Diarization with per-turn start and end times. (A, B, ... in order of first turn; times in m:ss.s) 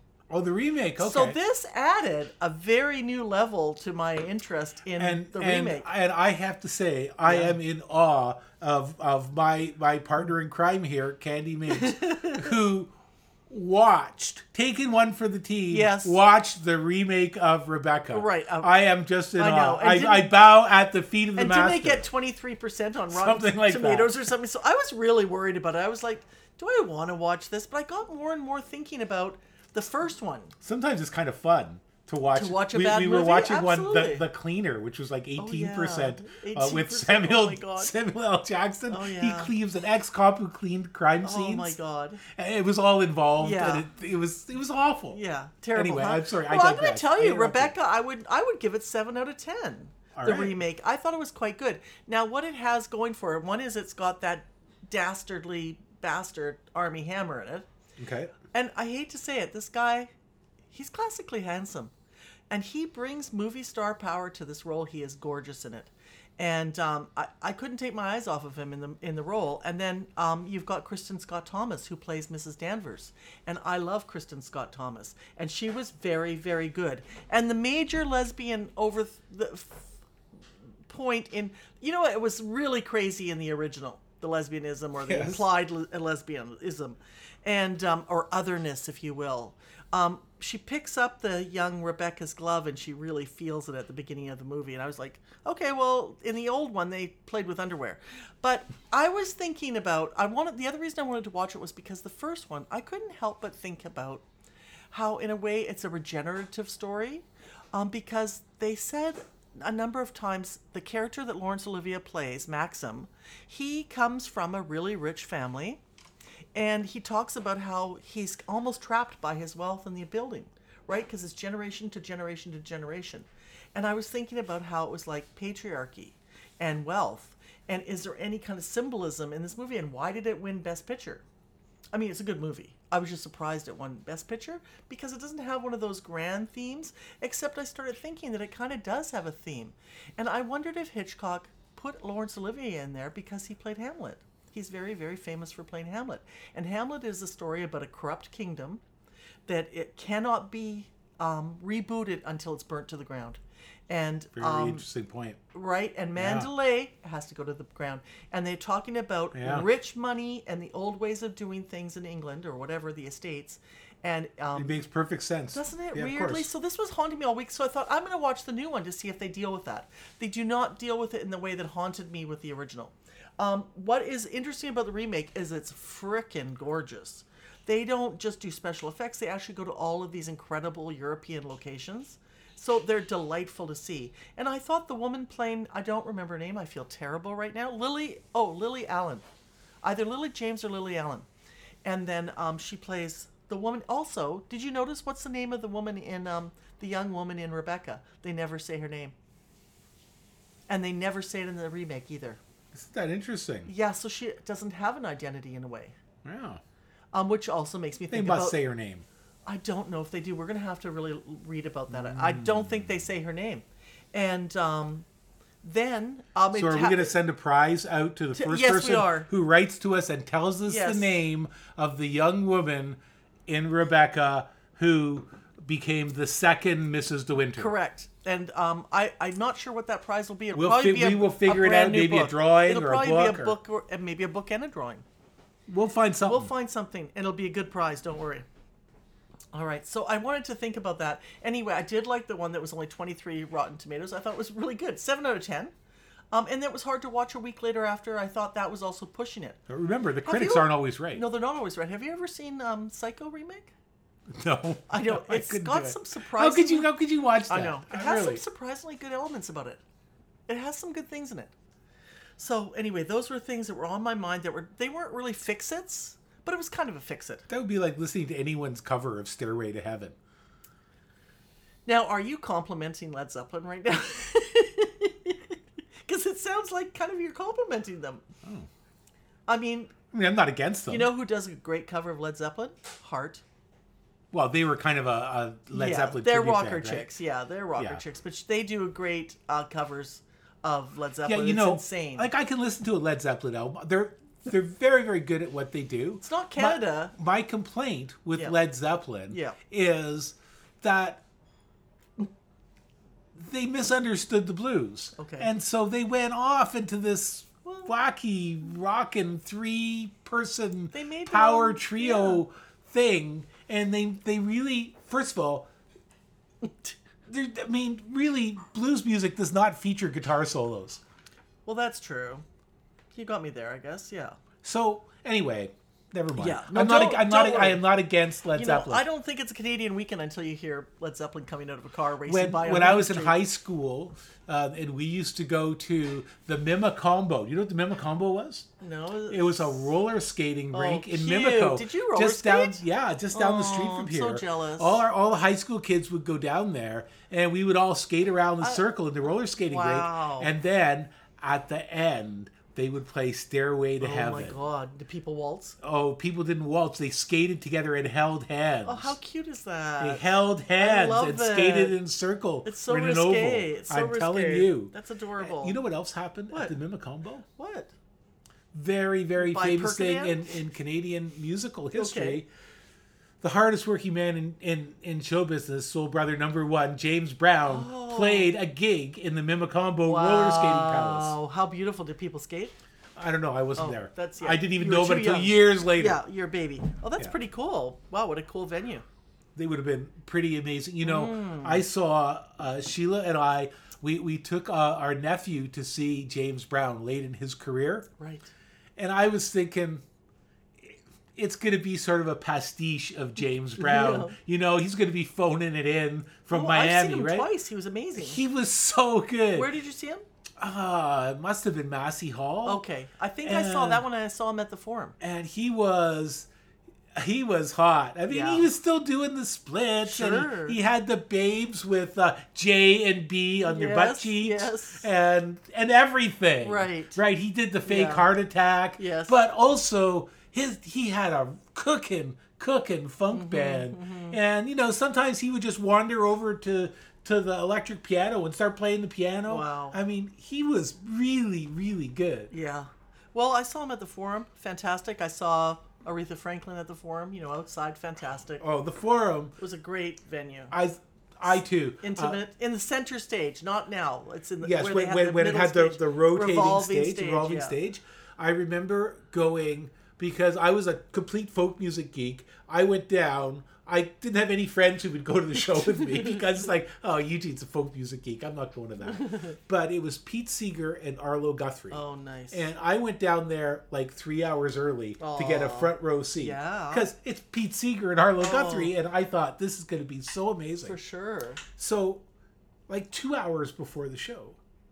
0:00.3-0:01.4 A
0:01.0-0:05.9 B
0:05.0-0:12.9 A
0:07.3-0:07.6 B
0:11.7-0:12.5 B
0:13.5-0:22.1 A
0:15.7-0:16.2 B
0:18.1-0:18.7 B
0:19.4-0:20.3 B
0:21.4-0:30.6 B
0:23.1-0:24.1 A
0:30.6-0:45.2 A
0:32.4-0:34.2 B
0:35.4-0:37.9 B
0:38.9-0:39.5 B
0:41.2-0:42.2 B
0:43.4-0:43.8 B
0:45.1-0:57.7 B
0:45.8-0:47.7 A
0:50.1-0:50.6 A
0:58.0-0:58.3 A
0:58.5-1:00.1 B
1:00.7-1:01.9 B
1:02.5-1:20.0 B
1:20.9-1:44.2 B
1:25.0-1:25.5 A
1:44.9-1:55.8 B
1:56.6-2:11.2 B
2:11.9-2:28.8 B
2:29.5-2:34.8 B
2:34.4-2:35.4 A
2:35.5-2:44.8 B
2:36.2-2:36.5 A
2:39.3-2:39.7 A
2:44.6-2:46.5 A
2:45.5-3:09.2 B
3:09.8-3:11.3 B
3:11.8-3:19.1 B
3:20.7-3:22.4 B
3:22.7-3:23.7 A
3:23.6-3:26.0 B
3:26.2-3:26.6 A
3:27.1-3:28.6 B
3:28.1-3:29.0 A
3:29.5-3:35.1 B
3:31.9-3:32.8 A
3:35.6-3:37.1 B
3:36.5-3:47.7 A
3:38.4-3:39.3 B
3:40.7-3:41.2 B
3:47.6-3:55.0 B
3:50.5-3:53.6 A
3:55.7-3:56.5 A
3:56.2-3:58.5 B
3:59.5-4:05.7 B
4:06.3-4:09.6 B
4:09.7-4:11.2 A
4:10.2-4:13.7 B
4:14.3-4:18.4 A
4:14.9-4:16.9 B
4:17.5-4:19.8 B
4:20.5-4:21.5 B
4:22.4-4:27.5 B
4:27.5-4:30.2 A
4:31.9-4:38.3 B
4:39.5-4:40.0 B
4:40.1-4:41.1 A
4:40.9-4:43.4 B
4:44.3-4:47.1 A
4:45.7-4:52.3 B
4:51.2-5:01.2 A
4:56.2-4:57.2 B
4:59.3-4:59.6 B
5:03.3-5:15.7 A
5:05.2-5:05.5 B
5:07.6-5:07.9 B
5:10.9-5:12.4 B
5:16.6-5:16.9 B
5:17.3-5:21.0 A
5:21.6-5:22.5 B
5:23.1-5:24.4 B
5:24.6-5:29.0 A
5:26.4-5:27.8 B
5:28.6-5:33.4 B
5:32.3-5:38.7 A
5:38.8-5:39.8 B
5:39.3-5:54.6 A
5:40.7-5:42.8 B
5:43.3-5:45.0 B
5:49.6-5:50.5 B
5:54.0-5:55.8 B
5:55.8-5:59.2 A
5:58.9-6:00.2 B
6:00.0-6:07.4 A
6:00.8-6:02.0 B
6:02.6-6:05.8 B
6:07.5-6:07.9 B
6:08.7-6:12.5 A
6:09.4-6:10.6 B
6:12.0-6:12.4 B
6:13.4-6:21.4 A
6:17.7-6:18.5 B
6:20.1-6:22.7 B
6:23.2-6:26.2 A
6:23.8-6:29.0 B
6:29.6-6:38.1 A
6:31.0-6:31.8 B
6:38.2-6:38.5 B
6:39.0-6:40.0 A
6:40.8-6:47.5 A
6:43.8-6:44.4 B
6:46.5-6:48.4 B
6:48.2-6:49.7 A
6:49.5-6:50.2 B
6:50.6-6:52.8 A
6:52.6-6:55.2 B
6:53.4-6:54.0 A
6:55.2-6:56.5 A
6:57.1-7:22.5 A
6:58.3-6:58.7 B
7:00.0-7:00.8 B
7:03.6-7:05.1 B
7:06.6-7:07.2 B
7:07.9-7:08.3 B
7:09.0-7:09.4 B
7:13.3-7:14.4 B
7:19.5-7:20.0 B
7:22.5-7:28.6 B
7:28.6-7:29.6 A
7:29.6-7:30.7 B
7:30.7-7:32.4 A
7:32.0-7:37.8 B
7:34.6-8:01.0 A
7:46.0-7:46.4 B
7:51.9-7:52.7 B
7:55.2-7:57.1 B
7:58.4-7:58.9 B
8:00.8-8:01.6 B
8:01.8-8:02.2 A
8:02.9-8:04.6 A